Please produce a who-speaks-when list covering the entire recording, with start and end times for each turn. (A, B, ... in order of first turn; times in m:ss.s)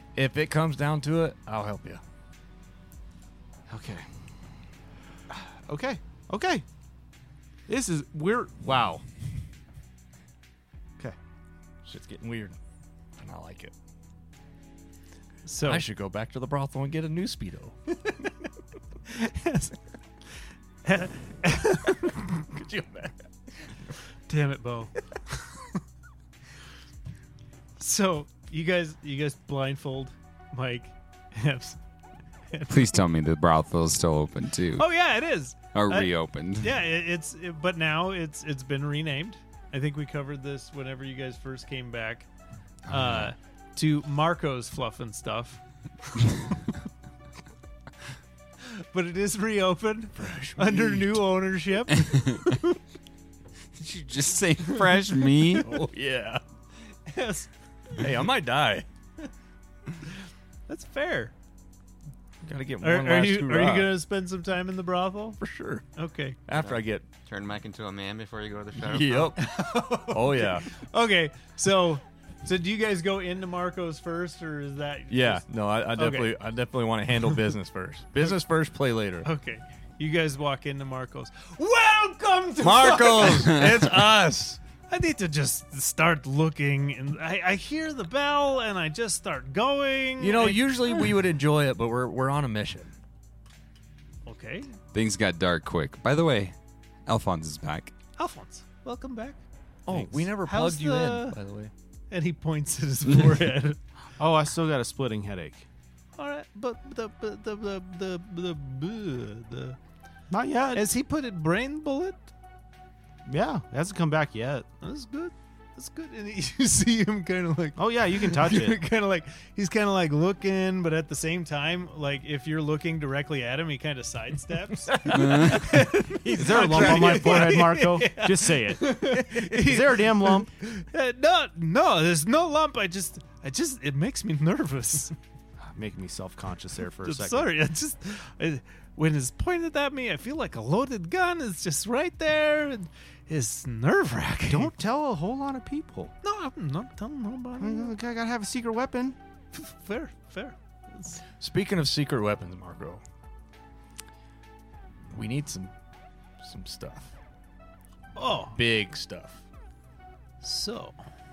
0:00.1-0:02.0 A
0:03.7-0:04.1 B
0:05.3-0:06.6 B
0:07.7-0:09.0 B
0:11.8-0:12.6 A
0:13.2-0:13.7 A
0:15.4-0:15.8 C
0:15.6-0:17.8 A
0:19.1-0:19.8 C
0:20.8-0:22.4 C
0:22.4-0:23.9 A
0:24.3-0:25.6 C
0:27.8-0:31.8 C
0:32.5-0:32.9 C
0:32.7-0:34.9 D
0:34.8-0:42.3 C
0:35.7-0:36.8 D
0:42.9-0:43.3 D
0:42.9-0:45.6 C
0:48.7-0:52.6 C
0:50.1-0:51.2 A
0:53.7-0:55.7 D
0:55.6-0:56.4 A
0:57.0-0:57.5 C
0:58.0-0:58.9 A
1:00.7-1:01.3 C
1:02.4-1:03.9 A
1:02.8-1:05.4 C
1:05.4-1:05.8 A
1:06.0-1:06.4 C
1:06.5-1:07.1 A
1:06.5-1:09.3 E
1:08.8-1:10.7 A
1:09.4-1:16.4 C
1:15.1-1:19.3 A
1:19.2-1:23.7 C
1:22.6-1:24.6 A
1:24.9-1:30.7 C
1:30.2-1:32.9 A
1:34.2-1:34.7 C
1:34.9-1:36.5 D
1:37.0-1:37.9 D
1:38.2-1:39.4 C
1:39.8-1:41.7 A
1:40.4-1:41.4 C
1:42.1-1:43.8 C
1:44.2-1:45.7 B
1:46.2-1:49.8 C
1:50.3-1:50.8 B
1:50.7-1:52.3 C
1:53.2-1:54.7 B
1:54.8-2:15.2 C
1:57.8-1:58.8 B
2:04.9-2:07.6 A
2:05.1-2:05.6 D
2:06.3-2:10.5 B
2:15.6-2:17.5 B
2:17.0-2:24.7 C
2:24.5-2:26.1 B
2:26.2-2:28.0 C
2:27.6-2:29.2 B
2:29.5-2:31.2 C
2:31.4-2:33.0 A
2:35.1-2:35.7 A
2:36.4-2:37.1 A
2:38.2-2:38.6 C
2:38.4-2:39.4 A
2:40.4-2:41.0 C